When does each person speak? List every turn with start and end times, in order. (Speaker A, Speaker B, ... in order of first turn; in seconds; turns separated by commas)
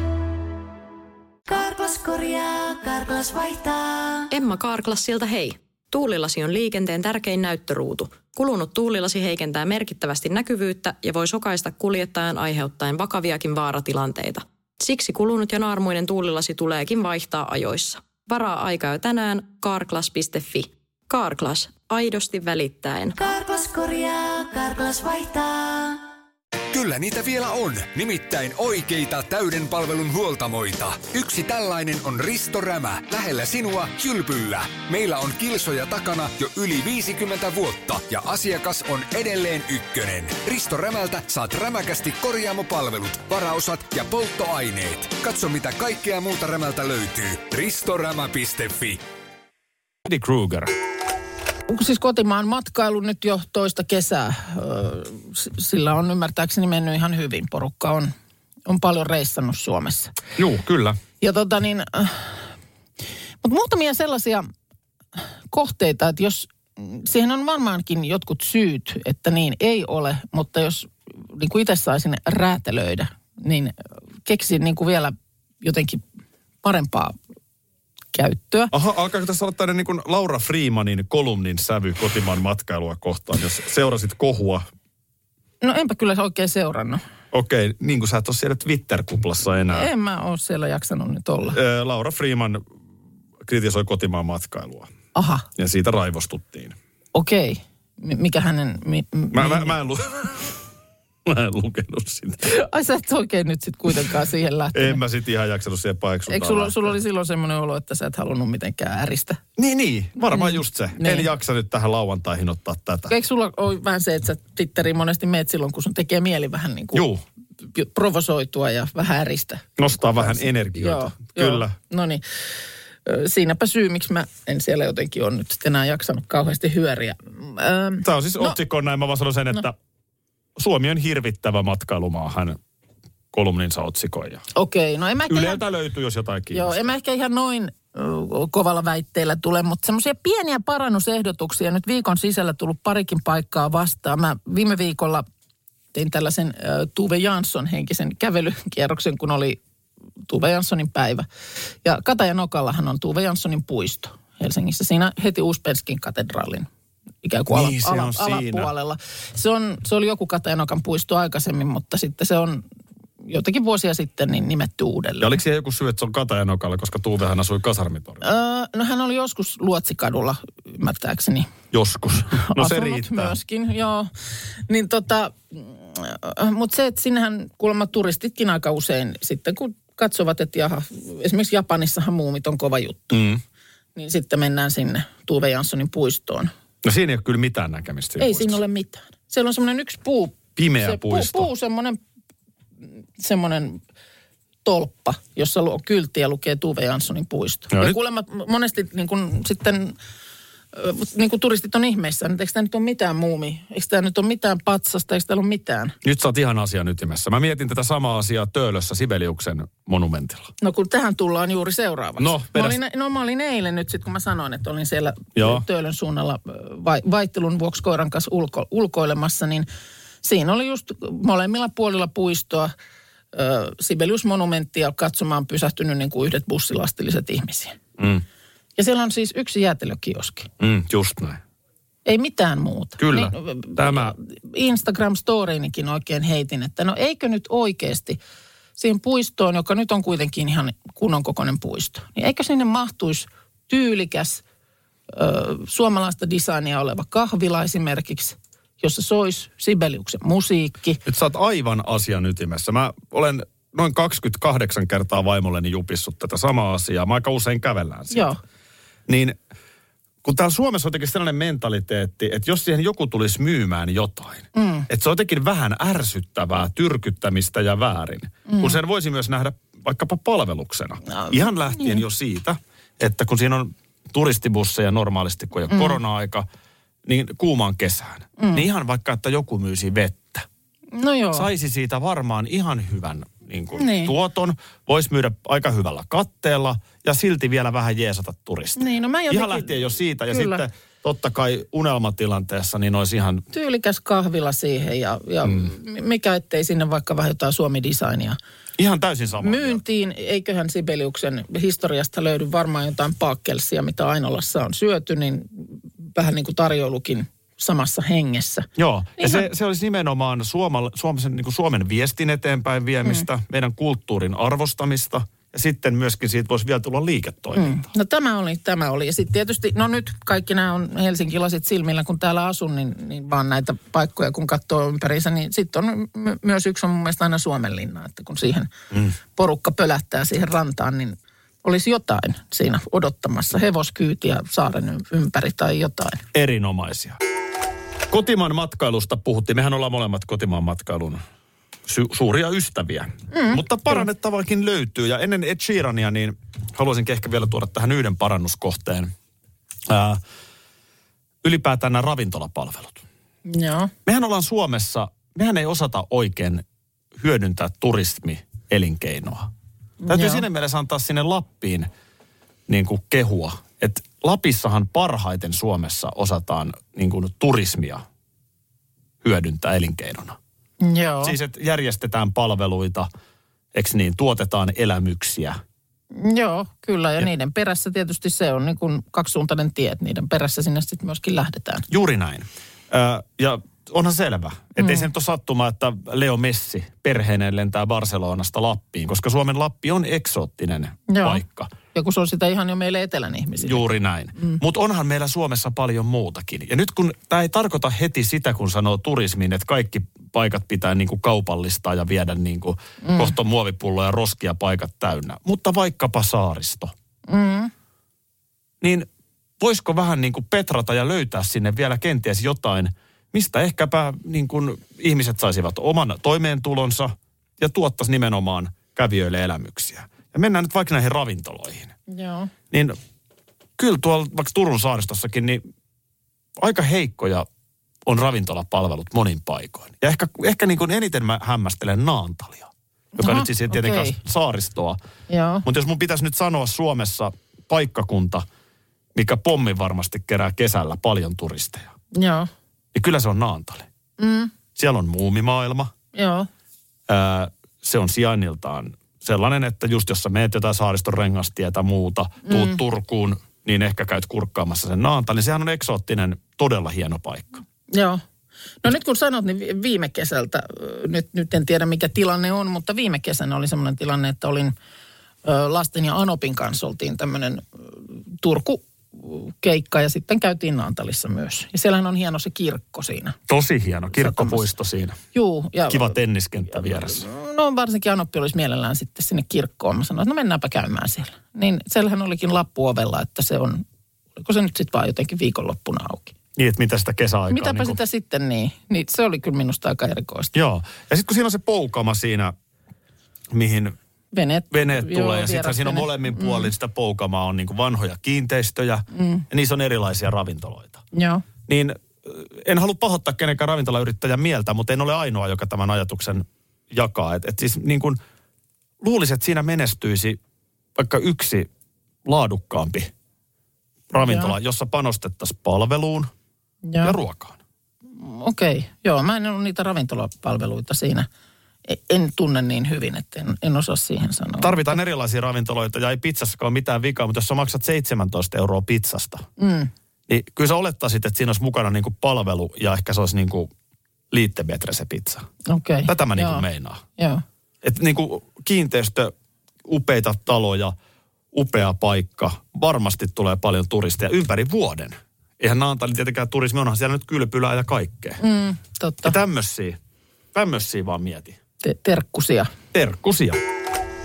Speaker A: 1.5-4.3, Speaker B: 4.3-23.2, Speaker A: 23.2-26.0, Speaker C: 26.7-49.0, Speaker D: 50.0-50.7, Speaker E: 51.7-58.1, Speaker E: 58.7-60.1, Speaker D: 60.4-61.0, Speaker E: 61.2-62.5, Speaker E: 63.4-64.5, Speaker E: 65.5-76.0, Speaker E: 76.6-77.2, Speaker E: 78.1-78.7, Speaker D: 78.7-84.7, Speaker E: 85.6-87.0, Speaker D: 87.3-89.9, Speaker E: 89.7-91.6, Speaker D: 91.5-92.6, Speaker D: 93.4-94.9, Speaker E: 95.2-95.5, Speaker D: 95.6-96.8, Speaker E: 97.1-99.8, Speaker D: 99.3-100.5, Speaker D: 101.2-102.4, Speaker E: 102.4-105.0, Speaker D: 104.7-106.9, Speaker E: 106.3-109.4, Speaker D: 109.6-113.1, Speaker E: 110.3-111.3, Speaker E: 113.1-117.1, Speaker D: 116.9-117.2, Speaker E: 117.7-122.2, Speaker D: 119.8-121.7, Speaker E: 123.1-128.6, Speaker D: 128.0-129.8, Speaker D: 130.6-132.6, Speaker D: 133.3-134.4, Speaker E: 134.5-135.6, Speaker D: 135.3-136.9, Speaker E: 136.5-145.2, Speaker E: 145.9-149.6, Speaker E: 150.3-151.3, Speaker E: 151.8-156.7, Speaker E: 157.2-162.6, Speaker D: 157.5-158.7, Speaker E: 163.2-165.4, Speaker D: 165.2-168.2, Speaker E: 168.2-171.5, Speaker D: 171.7-173.4, Speaker E: 172.4-174.1, Speaker E: 174.7-183.2, Speaker D: 183.1-183.4, Speaker E: 184.0-186.5, Speaker D: 186.8-188.6, Speaker E: 188.2-192.0, Speaker D: 190.6-191.5, Speaker E: 193.2-193.8, Speaker E: 194.6-200.0, Speaker D: 197.7-198.0, Speaker E: 200.7-206.0, Speaker D: 206.0-210.5, Speaker E: 210.6-219.7, Speaker D: 212.2-212.8, Speaker D: 215.4-215.7, Speaker E: 220.2-222.7, Speaker E: 223.3-227.8, Speaker D: 228.0-228.2, Speaker E: 228.8-230.5, Speaker D: 230.6-231.4, Speaker E: 232.1-238.2, Speaker D: 233.0-234.2, Speaker E: 238.8-244.4, Speaker E: 245.1-251.0, Speaker D: 251.1-258.4, Speaker E: 258.1-258.4, Speaker D: 259.1-259.4, Speaker D: 260.2-276.5, Speaker E: 264.5-264.9, Speaker E: 268.5-268.8, Speaker E: 271.1-272.0, Speaker E: 275.7-276.0, Speaker D: 277.1-280.5, Speaker E: 278.4-278.6, Speaker E: 280.9-281.5, Speaker D: 281.3-293.4, Speaker E: 283.8-284.1, Speaker E: 288.8-289.8, Speaker E: 290.3-290.6, Speaker E: 293.5-298.4, Speaker D: 298.8-299.8, Speaker E: 299.4-308.7, Speaker D: 308.8-317.9, Speaker E: 309.2-309.5, Speaker E: 317.6-328.7, Speaker E: 329.4-336.2, Speaker D: 336.3-337.2, Speaker D: 338.1-341.2, Speaker D: 341.9-349.1, Speaker E: 343.3-344.0, Speaker D: 349.9-350.2, Speaker D: 351.4-353.0, Speaker E: 353.5-353.9, Speaker D: 354.1-356.6, Speaker D: 357.2-359.5, Speaker E: 360.0-360.4, Speaker D: 360.1-361.9, Speaker D: 362.7-368.0, Speaker D: 369.2-370.4, Speaker E: 370.8-371.4, Speaker D: 371.2-373.1, Speaker D: 373.7-375.6, Speaker E: 376.1-381.9, Speaker D: 381.9-391.7, Speaker E: 384.8-385.1, Speaker E: 391.1-391.4, Speaker E: 391.9-393.9, Speaker D: 393.6-406.9, Speaker E: 403.0-403.4, Speaker E: 407.3-407.7, Speaker D: 408.8-409.1, Speaker D: 409.6-421.9, Speaker E: 422.1-422.5, Speaker D: 422.7-423.0, Speaker D: 423.8-425.6, Speaker D: 426.6-427.5, Speaker D: 428.1-435.0, Speaker E: 433.2-434.2, Speaker E: 435.3-435.7, Speaker D: 435.6-438.5, Speaker D: 439.1-441.9, Speaker E: 442.1-442.5, Speaker D: 442.9-443.9, Speaker E: 444.2-444.5, Speaker D: 444.8-445.9, Speaker E: 446.1-446.5, Speaker D: 447.1-457.6, Speaker E: 452.5-452.8, Speaker E: 457.9-458.2, Speaker E: 458.8-464.8, Speaker E: 465.4-473.4, Speaker D: 473.5-475.2, Speaker E: 474.1-474.7, Speaker E: 475.3-476.2, Speaker D: 475.9-477.2, Speaker E: 476.7-483.8, Speaker E: 484.4-486.3, Speaker D: 486.6-488.0, Speaker E: 487.5-490.5, Speaker D: 490.5-492.5, Speaker D: 493.5-494.0, Speaker E: 494.3-496.7, Speaker D: 494.7-501.0, Speaker E: 499.1-499.4, Speaker E: 501.1-501.4, Speaker D: 501.7-508.2, Speaker D: 509.0-510.4, Speaker D: 511.0-511.7, Speaker D: 512.2-513.1, Speaker D: 514.1-516.3, Speaker E: 514.2-514.5, Speaker E: 516.9-517.2, Speaker D: 517.0-517.6, Speaker E: 518.2-521.3, Speaker E: 521.9-525.0, Speaker D: 524.6-529.5, Speaker E: 529.6-529.9, Speaker D: 530.3-533.7, Speaker D: 534.3-535.5, Speaker E: 535.7-536.7, Speaker D: 536.1-537.0, Speaker E: 537.2-537.4, Speaker D: 537.8-539.3, Speaker D: 539.9-540.9, Speaker D: 541.5-548.4, Speaker E: 548.4-549.4, Speaker D: 549.2-550.0, Speaker D: 550.5-551.6, Speaker E: 551.8-552.7, Speaker D: 552.9-553.6